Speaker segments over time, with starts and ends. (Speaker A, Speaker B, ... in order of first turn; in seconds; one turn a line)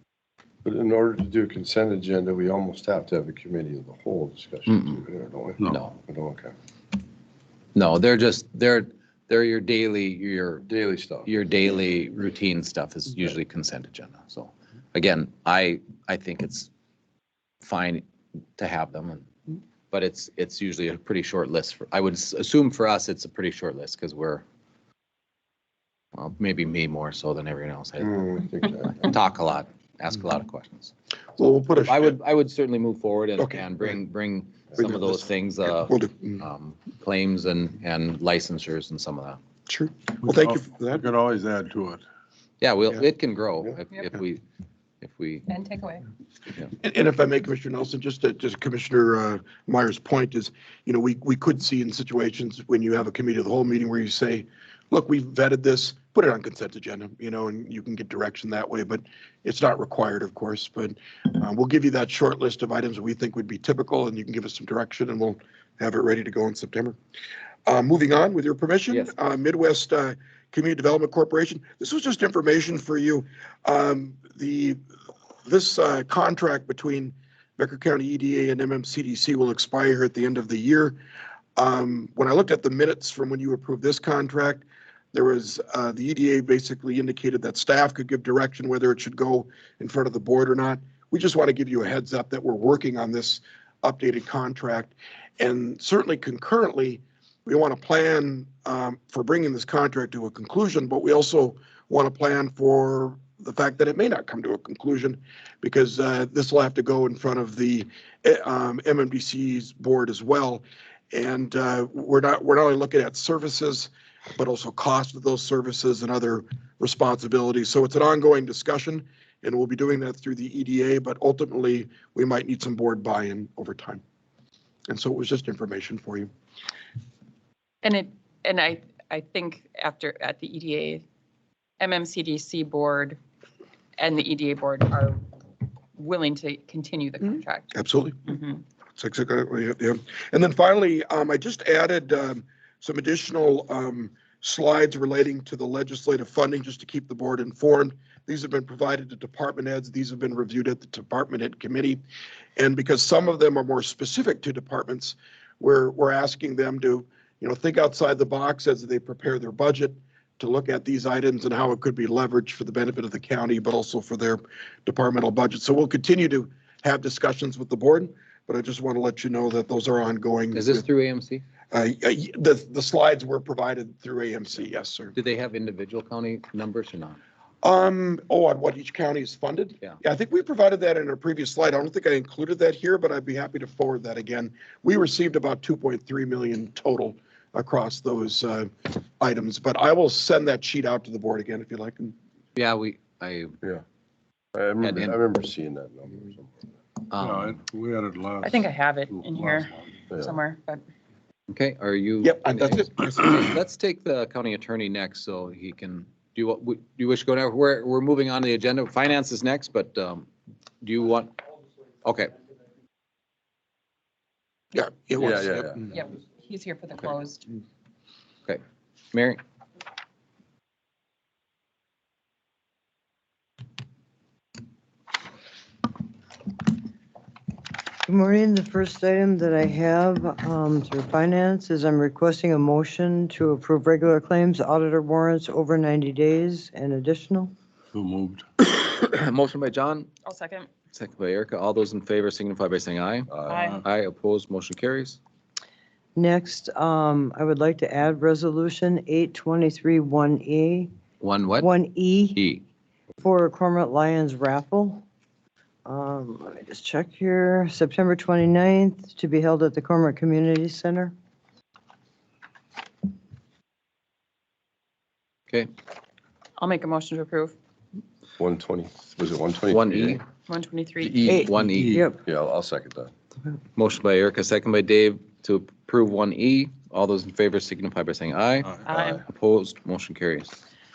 Speaker A: 0.6-6.5
Speaker B: 4.7-5.0
Speaker B: 5.7-6.0
Speaker B: 7.7-10.7
Speaker A: 10.6-11.4
Speaker B: 11.2-16.7
Speaker B: 17.6-18.0
Speaker B: 18.6-19.3
Speaker B: 19.9-24.4
Speaker B: 26.1-30.9
Speaker A: 28.0-29.1
Speaker C: 31.4-32.2
Speaker B: 31.9-39.4
Speaker C: 33.4-33.6
Speaker C: 35.6-36.4
Speaker C: 39.7-41.0
Speaker D: 40.2-42.0
Speaker B: 42.6-44.4
Speaker B: 45.0-45.5
Speaker E: 45.5-46.1
Speaker C: 46.7-67.0
Speaker C: 67.7-74.8
Speaker C: 75.4-81.0
Speaker C: 81.5-124.0
Speaker C: 124.9-126.3
Speaker E: 127.8-131.0
Speaker E: 131.8-133.2
Speaker E: 134.0-135.2
Speaker E: 135.9-138.6
Speaker C: 137.7-138.3
Speaker C: 138.9-152.0
Speaker C: 152.6-170.8
Speaker B: 170.5-171.4
Speaker C: 171.7-175.2
Speaker B: 175.1-177.2
Speaker C: 177.6-192.1
Speaker B: 192.6-193.5
Speaker A: 194.5-196.7
Speaker B: 194.8-195.2
Speaker B: 197.1-197.6
Speaker D: 197.2-200.0
Speaker E: 198.4-200.8
Speaker A: 200.1-200.4
Speaker B: 201.5-210.3
Speaker C: 202.2-203.3
Speaker B: 210.8-211.4
Speaker B: 212.0-212.3
Speaker C: 214.7-215.7
Speaker A: 215.2-215.8
Speaker E: 215.9-217.4
Speaker B: 219.1-219.4
Speaker F: 228.1-237.5
Speaker D: 237.9-238.5
Speaker B: 238.6-240.1
Speaker E: 240.2-240.8
Speaker B: 240.9-245.2
Speaker A: 243.3-243.7
Speaker E: 243.5-243.8
Speaker D: 243.5-243.8
Speaker F: 246.2-250.9
Speaker B: 251.2-251.7
Speaker F: 251.6-252.4
Speaker B: 252.3-252.6
Speaker F: 253.2-255.0
Speaker F: 255.8-261.1
Speaker E: 266.6-267.6
Speaker A: 268.4-270.2
Speaker B: 269.7-270.2
Speaker E: 270.4-271.4
Speaker A: 271.0-271.4
Speaker B: 271.2-272.0
Speaker F: 271.3-272.1
Speaker D: 271.6-272.0
Speaker A: 272.1-273.1
Speaker B: 273.7-280.5
Speaker E: 278.8-279.3
Speaker A: 278.9-279.2